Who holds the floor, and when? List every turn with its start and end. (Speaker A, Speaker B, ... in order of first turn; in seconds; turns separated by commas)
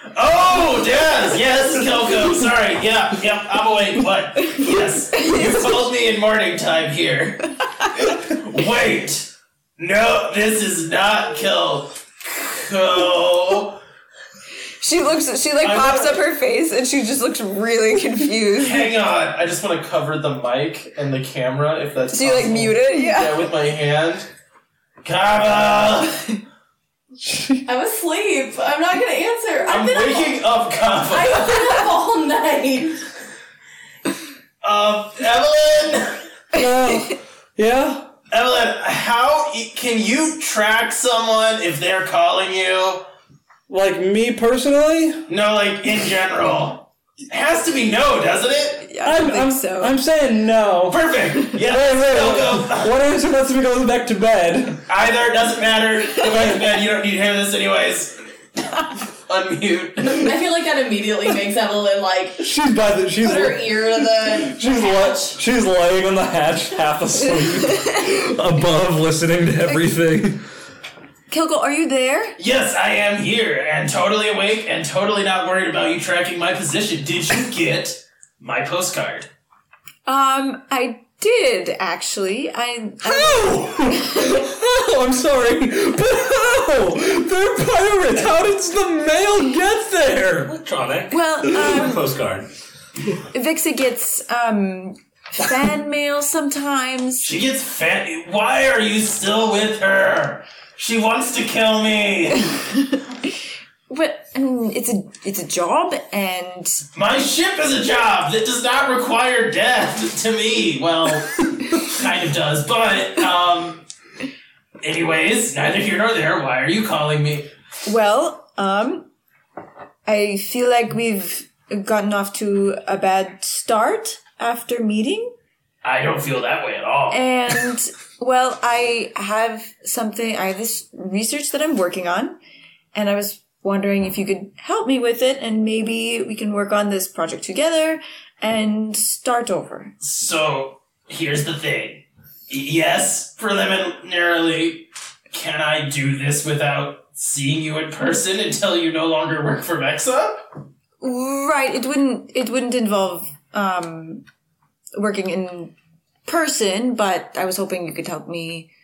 Speaker A: 0.1-13.8, Speaker B: 4.5-5.7, Speaker B: 14.8-18.9, Speaker A: 15.6-16.2, Speaker A: 18.6-24.3, Speaker B: 22.1-23.5, Speaker A: 25.0-26.4, Speaker C: 27.2-27.6, Speaker D: 27.7-30.4, Speaker A: 29.7-31.5, Speaker D: 31.1-33.0, Speaker A: 34.6-36.2, Speaker C: 36.5-38.1, Speaker A: 38.3-43.1, Speaker C: 43.7-45.3, Speaker A: 45.3-48.9, Speaker B: 48.8-50.0, Speaker C: 49.0-51.0, Speaker A: 50.9-53.0, Speaker C: 51.5-54.8, Speaker A: 54.9-58.2, Speaker A: 59.2-60.3, Speaker D: 60.0-62.4, Speaker C: 62.4-70.4, Speaker D: 63.2-65.4, Speaker B: 67.6-68.0, Speaker B: 71.3-72.3, Speaker A: 72.4-79.3, Speaker B: 80.1-84.3, Speaker C: 83.0-90.5, Speaker E: 90.4-92.5, Speaker B: 91.1-92.0, Speaker B: 93.3-97.3, Speaker A: 97.2-102.6, Speaker B: 103.9-106.8, Speaker A: 107.0-113.8, Speaker A: 114.8-117.5, Speaker B: 117.9-119.1, Speaker B: 120.1-125.3, Speaker A: 125.8-127.2, Speaker B: 127.1-132.4, Speaker B: 132.9-139.9, Speaker A: 140.0-150.5, Speaker B: 151.0-154.2, Speaker B: 155.0-155.7, Speaker B: 156.2-158.7